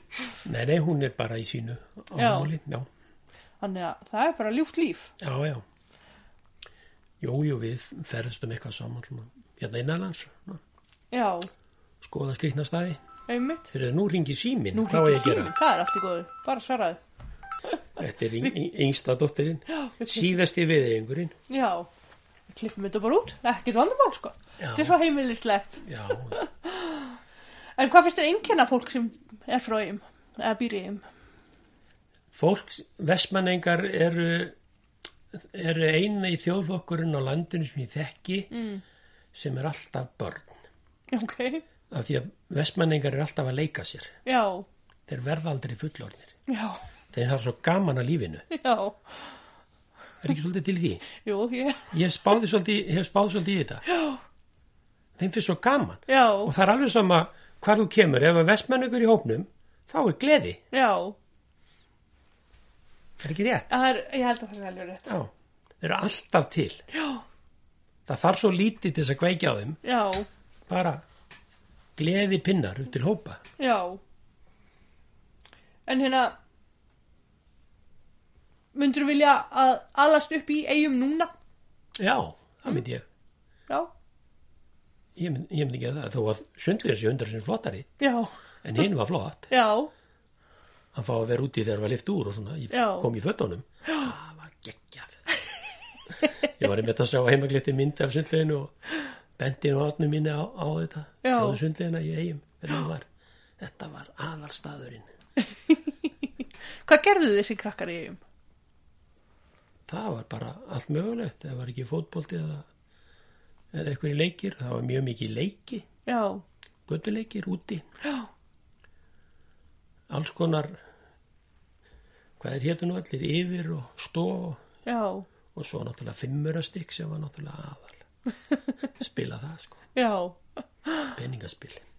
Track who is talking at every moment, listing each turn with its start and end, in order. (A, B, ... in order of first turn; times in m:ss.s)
0:00.4-0:02.9 A
0:02.2-0:02.5 B
0:03.6-0:05.1 B
0:05.2-0:05.6 A
0:07.2-0:10.6 A
0:11.1-0:11.5 B
0:12.0-0:13.0 A
0:13.3-0:13.7 B
0:13.7-0:15.5 A
0:14.7-0:17.0 B
0:18.0-0:21.4 A
0:19.7-0:20.3 B
0:21.5-0:21.9 B
0:22.5-0:27.2 B
0:24.6-0:25.0 A
0:25.8-0:26.4 A
0:27.8-0:31.0 B
0:32.3-0:34.6 A
0:35.3-0:38.5 A
0:38.5-0:38.8 B
0:39.3-0:40.6 A
0:41.1-0:41.6 B
0:41.9-0:44.2 A
0:44.2-0:44.7 B
0:45.1-0:46.3 A
0:46.5-0:46.8 B
0:47.1-0:48.4 A
0:48.5-0:49.4 B
0:50.2-0:51.0 A
0:51.2-0:52.0 B
0:51.9-0:53.8 A
0:53.9-0:54.2 B
0:55.2-1:00.6 A
0:56.1-0:56.5 B
1:00.7-1:01.2 B
1:03.2-1:03.7 A
1:03.7-1:05.1 B
1:05.1-1:06.8 A
1:06.9-1:07.2 B
1:08.1-1:09.8 A
1:09.8-1:10.3 B
1:10.7-1:11.0 A
1:12.0-1:13.4 A
1:13.6-1:14.0 B
1:15.9-1:16.4 B
1:18.8-1:21.3 B
1:22.0-1:23.0 A
1:25.2-1:27.9 A
1:28.0-1:28.4 B
1:28.6-1:29.5 A
1:29.5-1:29.9 B
1:30.9-1:35.2 A
1:32.7-1:33.1 B
1:36.5-1:38.7 A
1:39.4-1:43.1 A
1:41.2-1:41.6 B
1:43.6-1:45.1 A
1:45.4-1:46.1 B
1:46.8-1:48.2 B
1:49.9-1:52.7 A
1:53.7-1:55.9 A
1:56.1-1:56.4 B
1:56.9-1:57.8 A
1:58.0-1:58.3 B
2:00.1-2:00.8 A
2:02.4-2:04.6 A
2:04.8-2:05.3 B
2:05.6-2:08.0 A
2:09.0-2:09.8 A
2:10.0-2:11.2 B
2:11.2-2:11.8 A